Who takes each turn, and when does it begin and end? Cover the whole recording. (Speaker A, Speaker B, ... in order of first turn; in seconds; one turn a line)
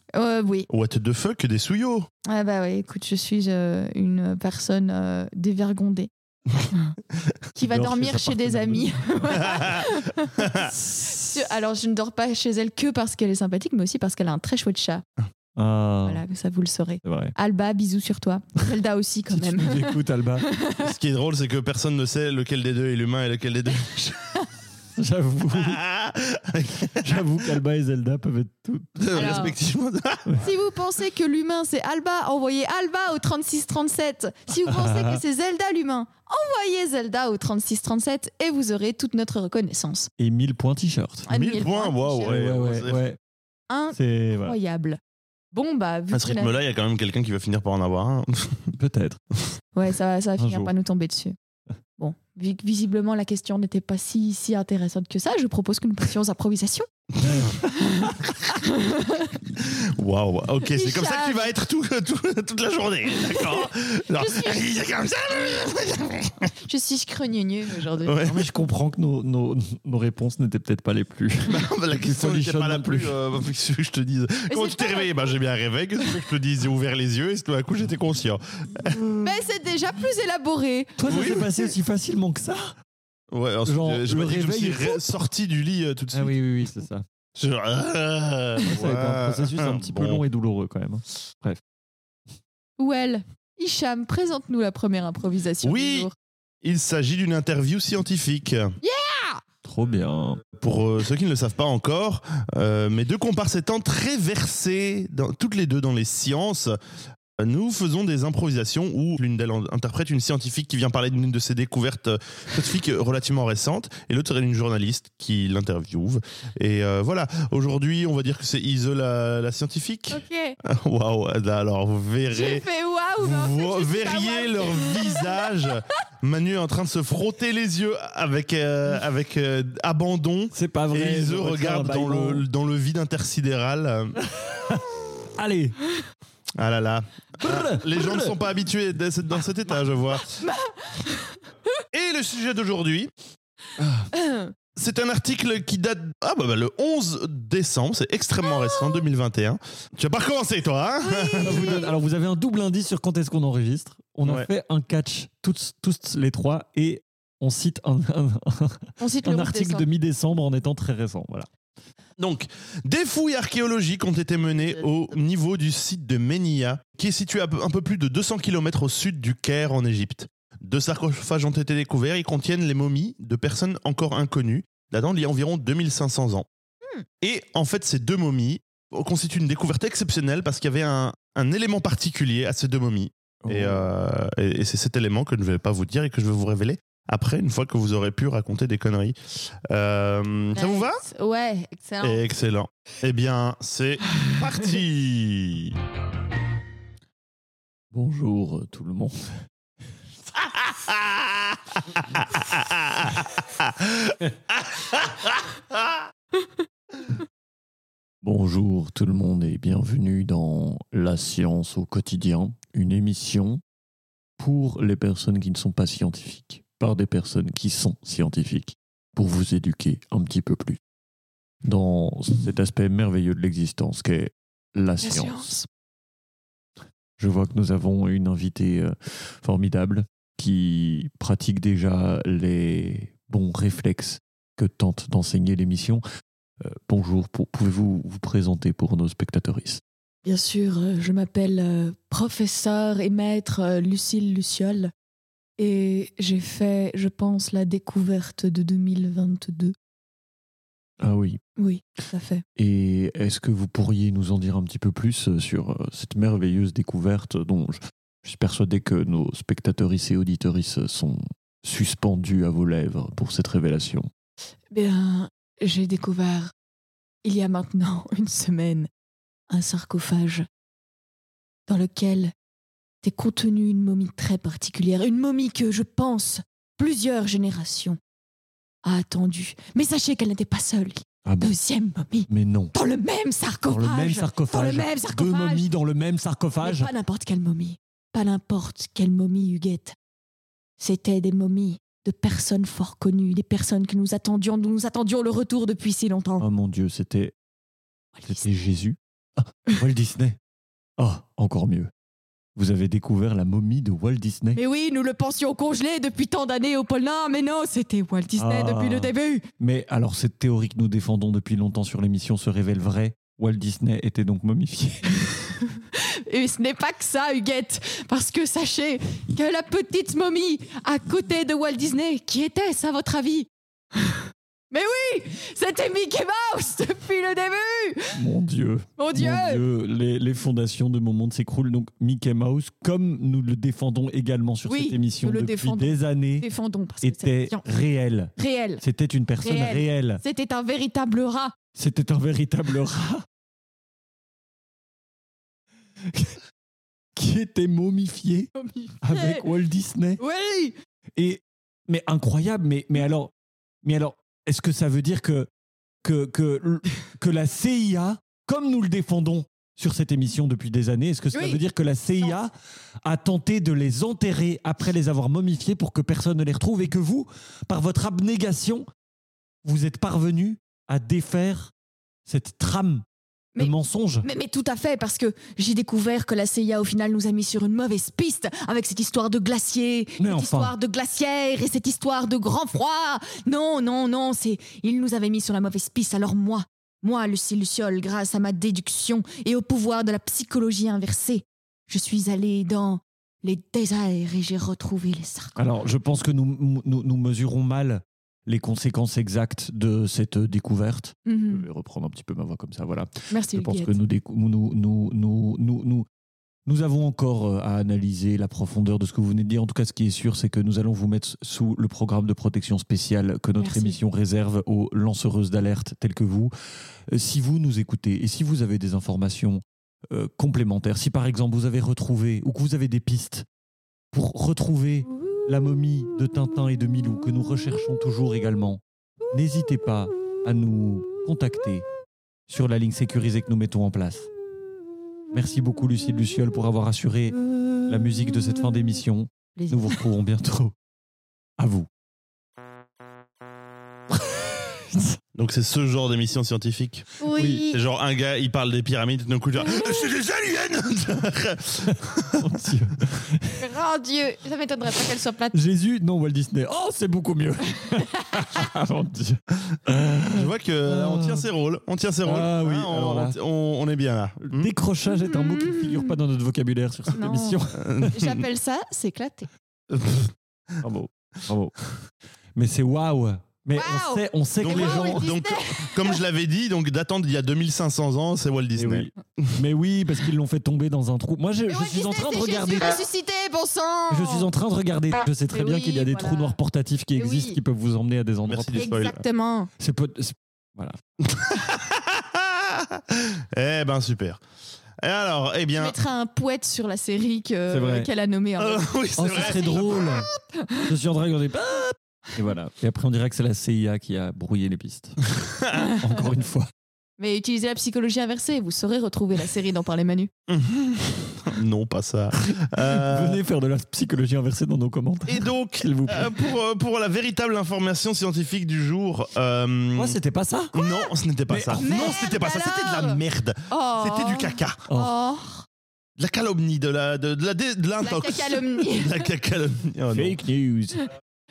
Speaker A: 0.1-0.7
Speaker B: 0.7-2.1
Speaker A: 2.3-6.1
Speaker A: 7.5-15.0
Speaker C: 7.7-9.7
Speaker B: 9.3-10.7
Speaker C: 10.7-11.5
Speaker C: 15.6-16.2
Speaker A: 16.1-20.9
Speaker C: 17.0-17.3
Speaker C: 19.3-20.5
Speaker B: 20.8-24.3
Speaker C: 25.0-25.8
Speaker B: 25.5-27.6
Speaker C: 26.9-29.5
Speaker B: 29.0-30.4
Speaker A: 29.1-29.5
Speaker A: 30.4-40.1
Speaker C: 34.7-35.2
Speaker C: 40.2-41.3
Speaker B: 41.3-43.0
Speaker A: 41.3-42.5
Speaker C: 42.2-43.2
Speaker A: 43.7-45.0
Speaker C: 44.0-44.6
Speaker A: 45.5-46.5
Speaker B: 46.1-48.7
Speaker C: 48.8-49.2
Speaker A: 49.8-51.4
Speaker C: 50.4-50.7
Speaker A: 52.0-56.9
Speaker B: 57.2-57.6
Speaker A: 58.6-59.4
Speaker B: 59.5-66.5
Speaker A: 60.7-61.5
Speaker A: 63.4-64.6
Speaker A: 66.6-68.2
Speaker B: 68.0-68.5
Speaker C: 68.3-73.2
Speaker B: 71.5-79.0
Speaker A: 74.5-75.3
Speaker C: 78.9-79.2
Speaker A: 79.2-81.5
Speaker C: 81.0-82.7
Speaker B: 81.1-81.5
Speaker B: 83.3-86.4
Speaker C: 83.7-85.0
Speaker C: 86.1-87.0
Speaker B: 87.4-90.2
Speaker C: 88.7-91.6
Speaker A: 92.8-96.1
Speaker B: 95.6-96.1
Speaker B: 96.6-98.7
Speaker A: 98.8-99.4
Speaker C: 99.6-100.4
Speaker B: 100.6-106.8
Speaker B: 107.4-122.7
Speaker A: 120.1-120.6
Speaker A: 122.3-125.5
Speaker B: 123.2-134.2
Speaker C: 130.5-132.4
Speaker C: 134.2-135.8
Speaker B: 136.6-140.4
Speaker C: 137.4-138.4
Speaker A: 140.4-141.4
Speaker B: 141.9-143.1
Speaker C: 143.8-144.1
Speaker A: 144.1-144.5
Speaker B: 144.8-151.8
Speaker A: 148.5-149.0
Speaker A: 151.0-151.9
Speaker C: 151.4-161.5
Speaker A: 159.0-159.8
Speaker B: 162.2-176.5
Speaker B: 177.2-191.0
Speaker C: 183.4-183.9
Speaker A: 190.6-192.2
Speaker B: 192.0-195.8
Speaker C: 197.9-199.5
Speaker B: 200.4-206.0
Speaker C: 208.2-213.6
Speaker C: 214.4-220.8
Speaker C: 221.7-225.5
Speaker A: 225.0-225.7
Speaker C: 227.2-236.0
Speaker C: 236.6-239.8
Speaker A: 240.2-244.9
Speaker A: 245.6-249.7
Speaker C: 251.0-251.4
Speaker A: 251.6-252.4
Speaker C: 252.6-264.1
Speaker A: 264.7-266.5
Speaker A: 267.2-268.9
Speaker A: 269.5-270.4
Speaker A: 271.7-272.3
Speaker A: 273.0-278.0
Speaker A: 278.9-285.7
Speaker C: 281.2-281.5
Speaker C: 282.3-282.7
Speaker C: 283.7-286.9
Speaker A: 286.6-289.9
Speaker A: 290.8-296.4
Speaker C: 296.4-297.3
Speaker A: 298.2-298.5
Speaker C: 298.3-300.4
Speaker C: 301.0-301.9
Speaker C: 302.6-304.6
Speaker A: 304.6-309.4
Speaker C: 308.4-315.1
Speaker A: 315.3-328.2
Speaker C: 328.2-336.5
Speaker A: 329.0-329.6
Speaker A: 334.7-337.6
Speaker C: 337.0-340.2
Speaker A: 338.4-338.8
Speaker A: 339.4-341.5
Speaker C: 341.8-343.2
Speaker C: 346.1-346.4
Speaker C: 347.2-348.5
Speaker A: 348.6-349.4
Speaker C: 349.0-350.2
Speaker A: 350.2-350.8
Speaker C: 351.2-353.3
Speaker C: 353.8-355.5
Speaker C: 356.0-362.5
Speaker A: 361.3-361.6
Speaker C: 363.0-368.9
Speaker C: 369.6-371.7
Speaker C: 372.3-373.0
Speaker C: 373.6-374.3
Speaker A: 374.2-395.6
Speaker C: 380.2-380.7
Speaker C: 395.6-406.1
Speaker A: 401.3-401.7
Speaker A: 403.3-404.0
Speaker C: 406.7-416.5
Speaker A: 413.6-414.0
Speaker C: 417.1-423.5
Speaker C: 424.1-431.9
Speaker C: 432.5-434.3
Speaker C: 435.3-440.7
Speaker A: 439.6-439.9
Speaker C: 441.6-441.9
Speaker C: 444.3-445.1
Speaker B: 445.4-447.1
Speaker A: 447.2-447.8
Speaker C: 447.3-447.6
Speaker B: 447.6-452.4
Speaker C: 451.9-453.6
Speaker A: 453.6-455.6
Speaker C: 455.5-461.5
Speaker B: 460.3-464.7
Speaker C: 462.2-463.4
Speaker C: 464.5-468.2
Speaker A: 465.2-466.0
Speaker A: 467.1-467.6
Speaker B: 467.8-468.4
Speaker A: 468.1-469.5
Speaker B: 469.9-470.8
Speaker C: 470.8-471.8
Speaker C: 472.6-475.3
Speaker A: 473.8-476.2
Speaker B: 474.6-479.6
Speaker C: 478.8-483.0
Speaker A: 481.7-484.5
Speaker C: 484.1-489.2
Speaker A: 485.5-486.6
Speaker A: 487.2-487.6
Speaker B: 488.5-489.2
Speaker A: 488.8-489.7
Speaker C: 489.8-491.0
Speaker B: 491.2-494.4
Speaker B: 495.0-496.0
Speaker A: 495.8-500.9
Speaker C: 497.7-498.1
Speaker B: 498.6-500.3
Speaker C: 499.2-500.3
Speaker C: 500.9-505.2
Speaker B: 505.5-505.8
Speaker A: 505.7-506.1
Speaker C: 506.0-506.7
Speaker A: 507.2-510.3
Speaker B: 510.5-513.4
Speaker C: 512.4-516.3
Speaker B: 515.3-520.2
Speaker C: 520.0-520.7
Speaker B: 520.7-524.8
Speaker A: 520.8-521.1
Speaker C: 521.5-522.3
Speaker A: 521.8-525.7
Speaker B: 526.2-530.4
Speaker A: 528.0-529.2
Speaker C: 530.1-531.1